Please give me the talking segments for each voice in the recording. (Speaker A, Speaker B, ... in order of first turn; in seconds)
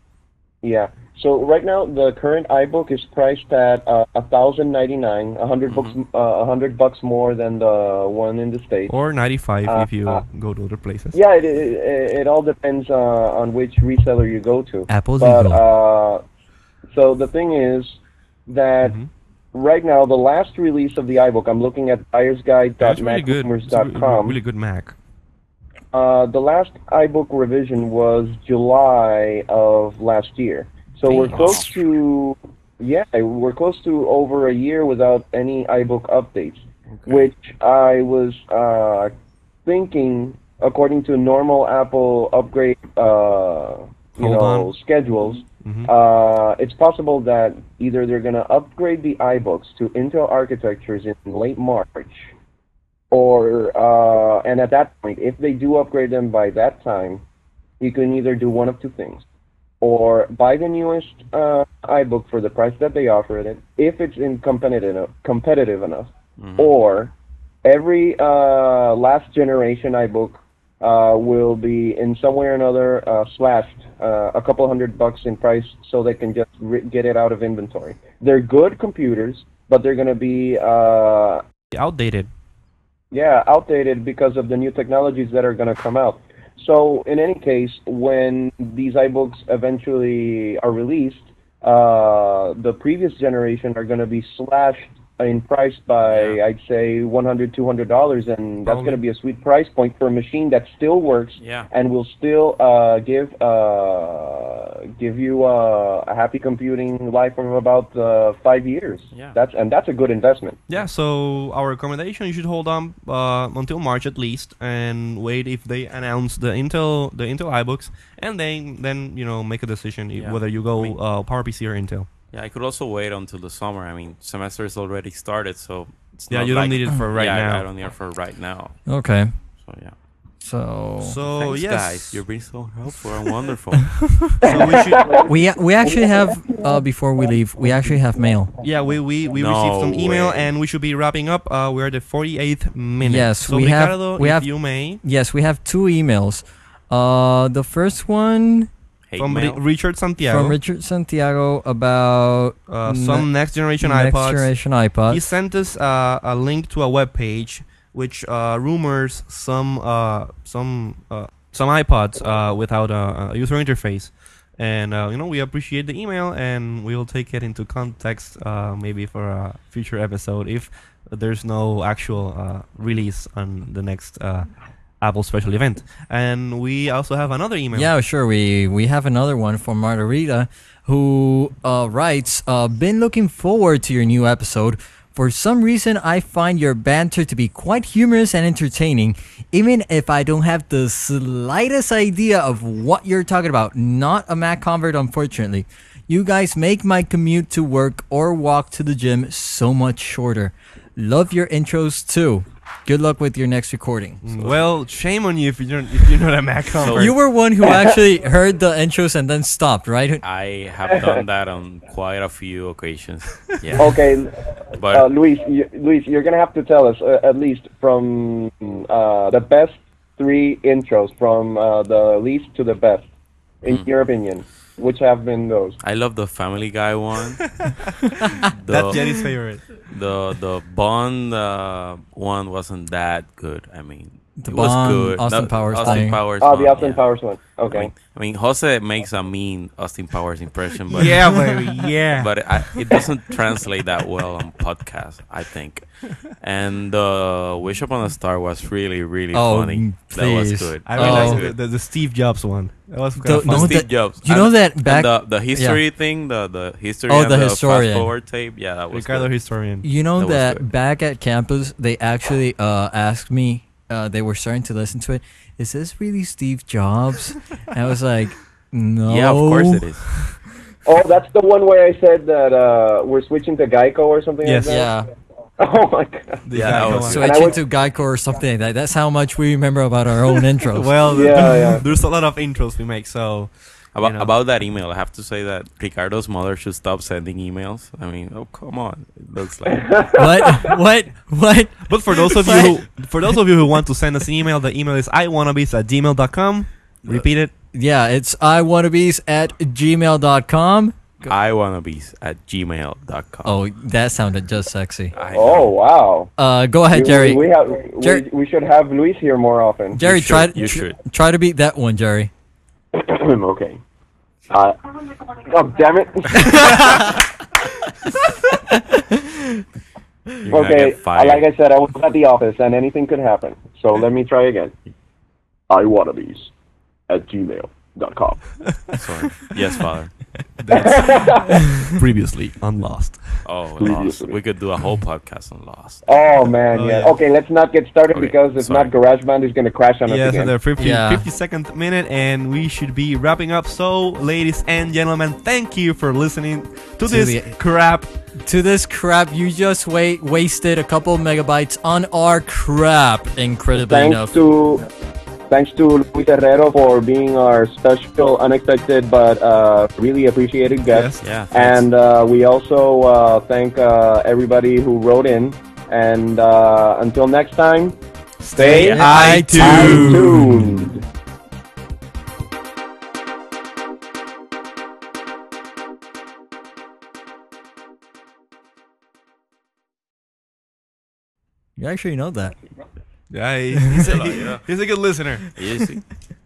Speaker A: 0.6-8.9, 9.7-10.2, 11.1-16.2, 16.9-19.0, 19.5-24.4, 25.9-39.1, 39.6-52.3, 53.1-57.2, 57.8-59.2, 59.8-67.1, 67.6-81.4, 83.1-110.6, 134.4-135.3, 210.9-211.2, 213.8-223.1, 223.6-225.8, 235.9-237.9, 270.8-274.9, 275.6-277.6, 281.1-281.9, 289.7-290.7, 305.3-306.3, 306.9-310.0, 312.9-313.8, 314.5-317.2, 320.5-324.7, 325.7-326.5, 327.1-328.4, 330.7-331.7, 333.8-334.4, 336.1-340.5, 353.7-354.9, 355.5-368.0, 368.5-371.0
Speaker B: 5.7-6.0, 31.3-31.7, 37.0-37.3, 66.4-66.7, 96.0-96.4, 101.4-101.7, 120.1-120.9, 122.3-128.8, 129.6-129.9, 131.3-134.1, 139.3-140.5, 149.1-149.6, 204.3-204.6, 206.8-207.1, 210.2-214.1, 214.8-215.1, 225.8-227.5, 228.4-229.0, 229.9-237.0, 237.7-241.5, 242.1-251.6, 253.4-259.3, 260.2-260.7, 269.1-270.0, 276.5-277.6, 283.9-290.1, 301.2-303.6, 305.1-305.7, 309.9-310.9, 320.4-321.4, 328.9-330.1, 333.4-336.0, 338.1-338.9, 361.2-361.8, 368.7-369.1, 384.0-384.6, 385.6-386.1
Speaker C: 8.9-11.2, 18.8-19.1, 22.8-24.9, 44.2-44.7, 45.6-45.9, 81.7-82.3, 98.6-99.0, 110.7-122.1, 126.3-127.7, 131.0-132.2, 134.4-135.2, 138.6-145.0, 149.2-150.6, 152.7-154.5, 155.1-174.5, 175.0-177.9, 204.2-207.2, 228.7-229.6, 240.9-242.3, 250.8-253.8, 258.9-259.9, 274.4-274.7, 276.4-277.2, 280.6-283.5, 284.0-284.3, 291.9-297.5, 330.6-333.4, 336.7-337.1, 340.1-348.1, 360.9-361.2, 368.4-370.6, 383.3-385.4
Speaker D: 14.9-15.6, 31.1-31.5, 128.9-129.3, 130.4-131.2, 133.9-134.4, 135.2-138.5, 143.0-144.5, 145.0-148.7, 150.3-153.3, 153.8-155.2, 177.7-204.2, 206.9-210.2, 228.1-228.4, 234.4-236.2, 241.2-241.5, 249.3-251.4, 253.2-255.8, 257.1-258.1, 259.8-269.8, 274.6-275.1, 277.1-281.4, 290.1-292.8, 297.7-301.0, 303.4-305.1, 306.4-307.4, 309.9-312.3, 316.4-317.2, 318.5-319.6, 340.8-341.2, 347.0-347.6, 348.4-354.4, 368.9-370.8, 381.8-382.6, 383.8-384.1